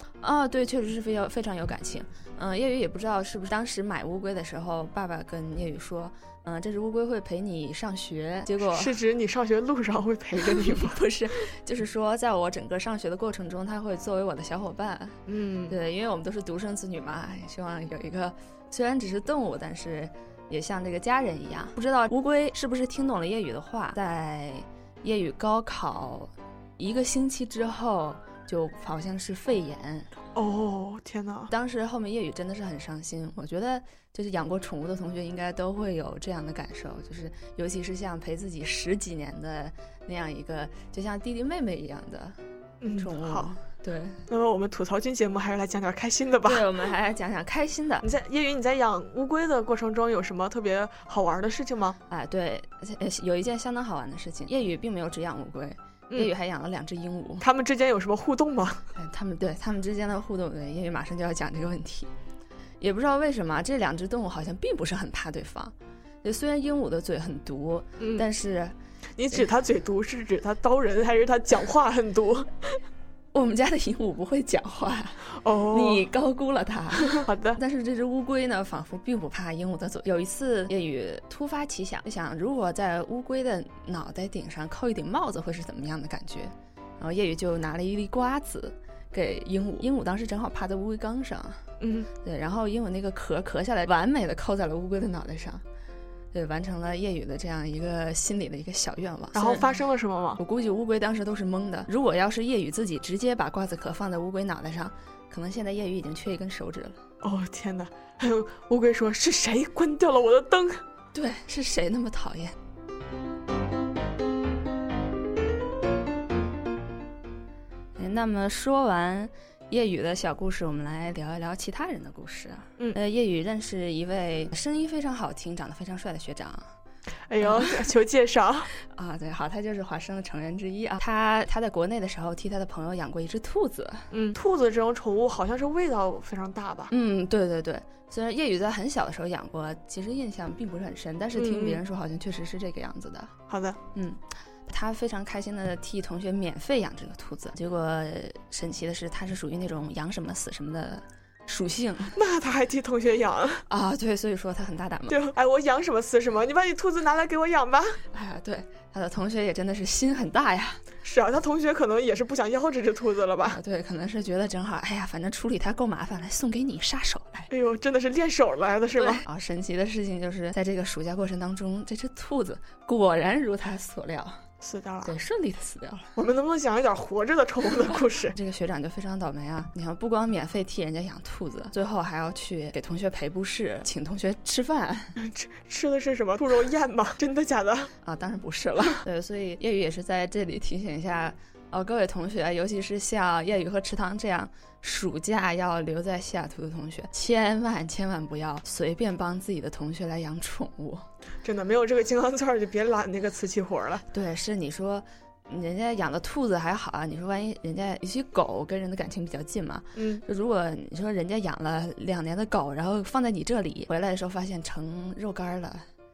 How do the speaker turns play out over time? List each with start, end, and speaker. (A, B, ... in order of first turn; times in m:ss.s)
0:00.2-0:08.9 A
0:08.7-0:11.0 B
0:10.4-0:15.2 A
0:15.3-0:15.8 B
0:15.7-0:30.1 A
0:30.4-0:31.5 B
0:31.5-0:42.4 A
0:42.8-0:43.5 B
0:43.0-0:44.2 A
0:44.3-0:46.7 B
0:46.4-0:48.1 A
0:48.0-0:52.0 B
0:52.1-0:57.4 A
0:57.4-0:58.9 B
0:59.0-1:02.1 A
1:02.8-1:08.8 A
1:08.0-1:08.3 B
1:09.2-1:12.5 B
1:13.3-1:31.6 A
1:15.3-1:16.0 B
1:17.1-1:17.6 B
1:31.8-1:32.1 B
1:32.2-1:35.6 A
1:36.3-1:39.7 A
1:39.3-1:40.4 B
1:40.4-1:47.0 A
1:47.2-1:50.8 B
1:51.1-1:52.6 A
1:58.0-2:06.7 A
2:07.3-2:08.7 B
2:07.4-2:07.9 A
2:08.9-2:14.1 A
2:14.1-2:16.9 B
2:16.9-2:23.3 A
2:21.3-2:21.8 B
2:23.5-2:23.8 B
2:24.0-2:32.1 A
2:32.1-2:33.6 B
2:33.7-2:35.2 A
2:35.1-2:38.0 B
2:38.1-2:40.8 A
2:41.0-2:43.6 B
2:43.5-2:47.5 A
2:47.5-2:49.2 B
2:49.0-2:54.4 A
2:54.6-2:55.1 B
2:55.0-2:56.1 A
2:56.2-2:58.4 B
2:58.3-3:05.2 A
3:05.2-3:07.9 B
3:08.0-3:21.0 A
3:21.4-3:24.0 B
3:24.1-3:35.9 A
3:30.0-3:30.2 B